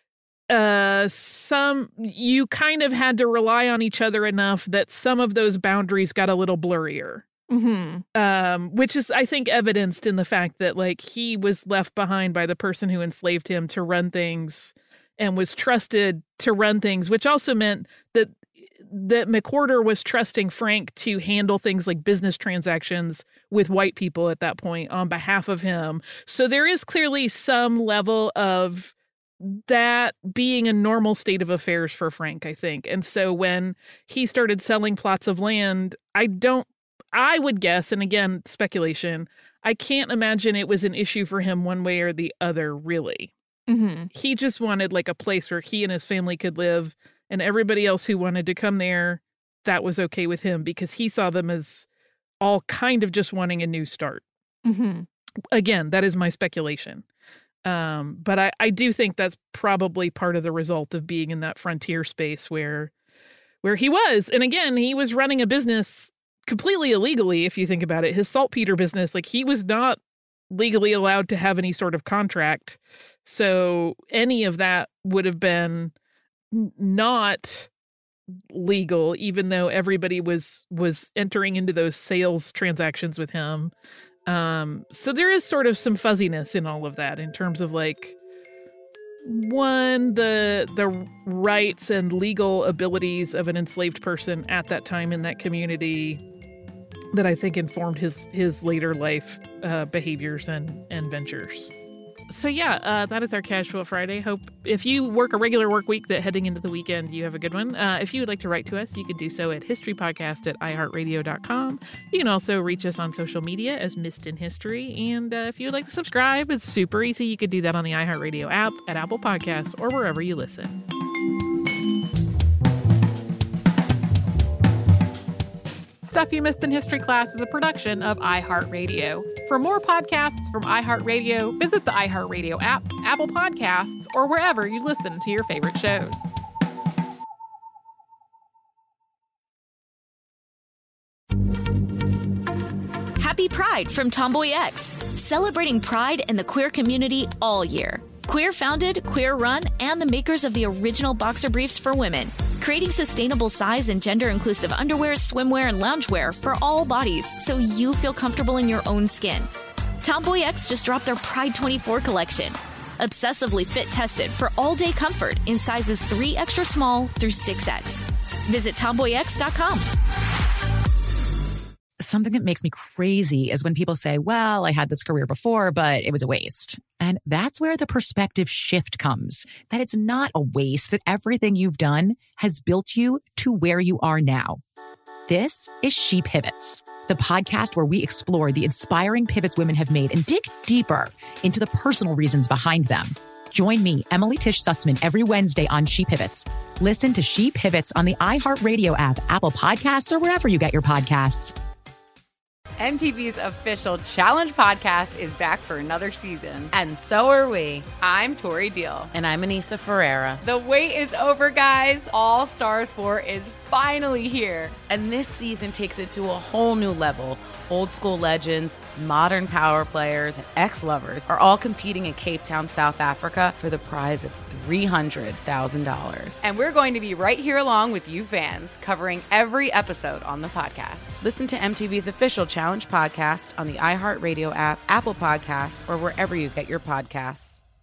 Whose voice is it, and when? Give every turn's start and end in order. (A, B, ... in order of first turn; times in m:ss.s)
0:00.5-0:07.2 A
0:07.5-0:08.0 B
0:08.2-0:43.3 A
0:43.7-0:44.1 B
0:44.1-0:51.9 A
0:52.4-0:54.2 A
0:54.6-0:55.1 B
0:55.5-0:57.0 A
0:57.6-1:02.9 A
1:03.6-1:10.0 A
1:10.5-1:15.9 A
1:16.5-1:17.7 A
1:18.5-1:23.7 A
1:24.3-1:28.2 A
1:29.3-1:36.2 A
1:37.1-1:41.7 A
1:42.3-2:00.8 A
2:06.0-2:16.3 B
2:23.2-2:39.5 C
2:40.0-2:49.9 C
2:52.0-3:04.6 D
3:05.3-3:21.5 D
3:22.8-3:26.7 E
3:26.7-3:27.9 F
3:27.9-3:29.1 E
3:29.1-3:30.4 F
3:30.4-3:34.8 E
3:34.8-3:46.5 F
3:46.4-3:49.1 E
3:47.7-3:57.6 F
3:49.9-3:51.0 E